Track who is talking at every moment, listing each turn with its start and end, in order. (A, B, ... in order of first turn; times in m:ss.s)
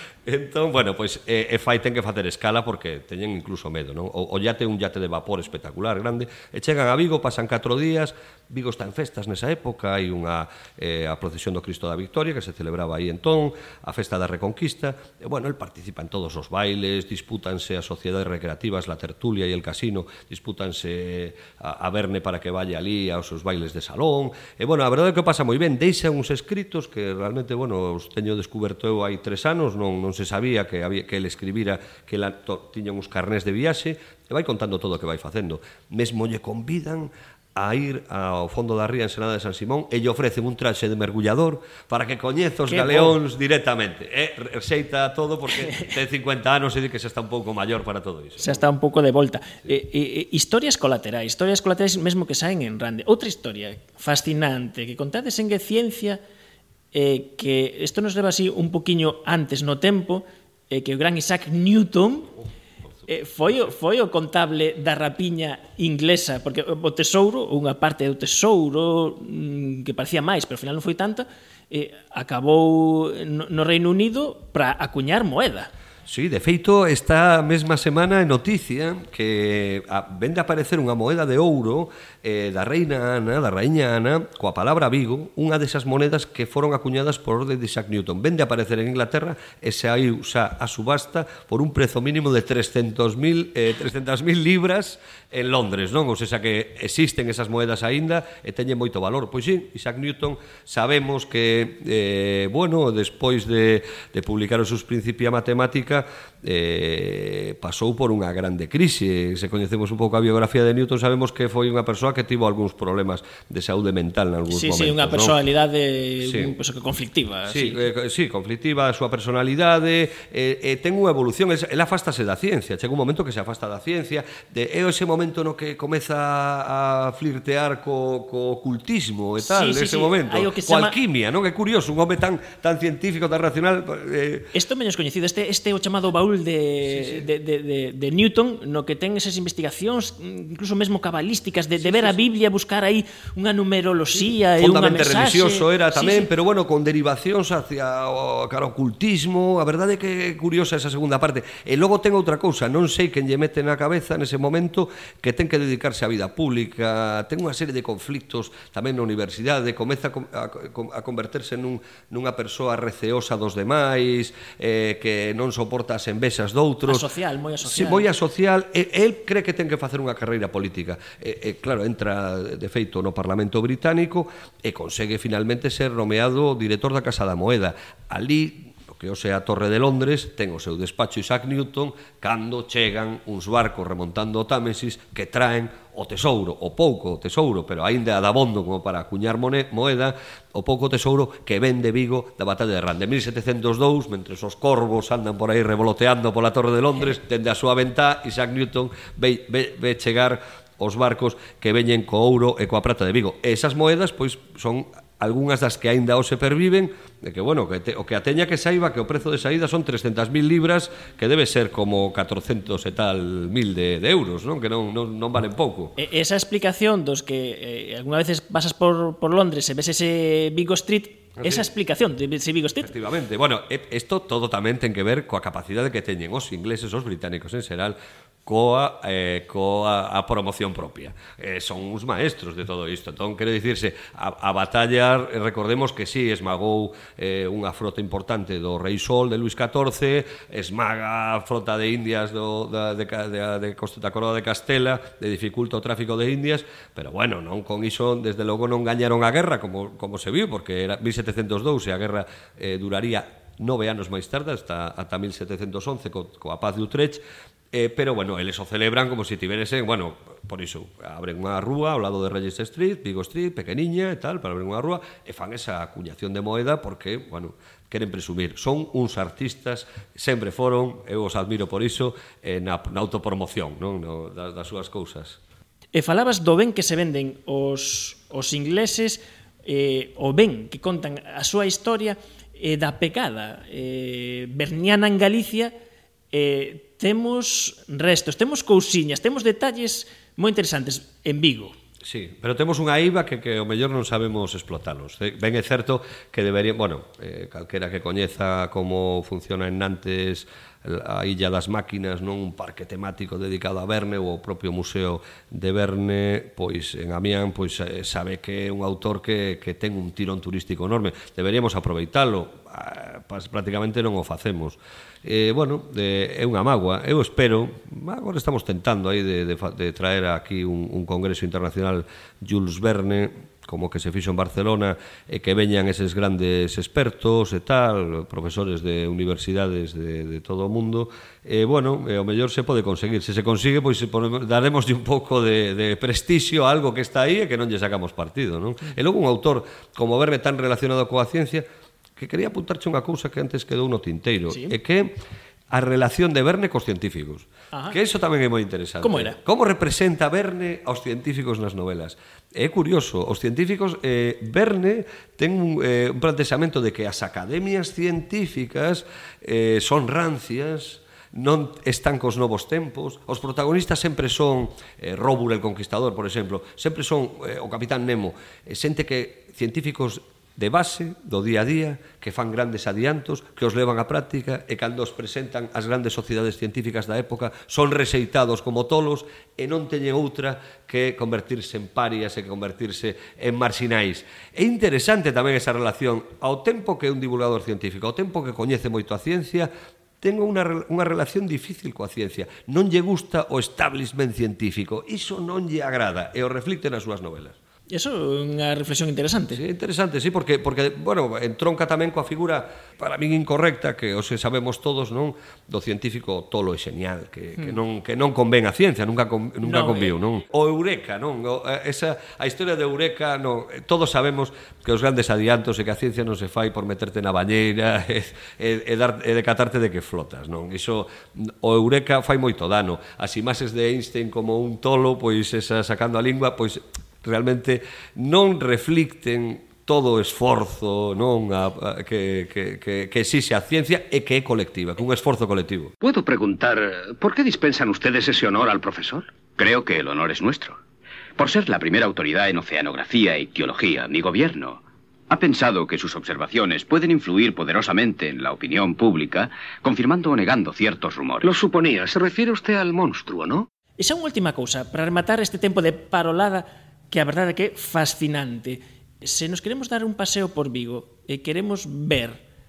0:00.2-0:48.6 A
0:42.7-0:43.2 B
0:48.4-0:56.2 B
0:56.9-1:02.4 B
1:03.1-1:15.7 B
1:16.1-1:55.3 A
1:54.5-1:57.8 B
1:56.2-1:56.5 A
1:57.5-2:14.5 A
2:09.4-2:11.0 B
2:14.5-2:26.3 B
2:16.9-2:17.2 A
2:21.8-2:22.2 A
2:24.6-2:47.1 A
2:46.8-2:48.1 B
2:47.6-3:36.0 A
3:36.0-3:42.9 B
3:41.4-3:41.6 A
3:42.8-4:35.4 A
4:35.9-4:45.7 B
4:46.3-4:51.7 B
4:52.0-5:41.6 A
5:42.2-5:45.1 A
5:44.5-5:44.8 B
5:45.7-6:29.7 A
5:47.7-5:48.0 B
5:49.0-5:49.4 B
6:30.2-6:37.6 A
6:37.9-6:39.6 B
6:39.5-7:15.9 A
6:49.6-6:50.1 B
7:16.0-7:19.3 C
7:19.6-7:20.8 D
7:21.4-7:31.5 D
7:31.4-7:33.7 C
7:34.0-7:42.4 B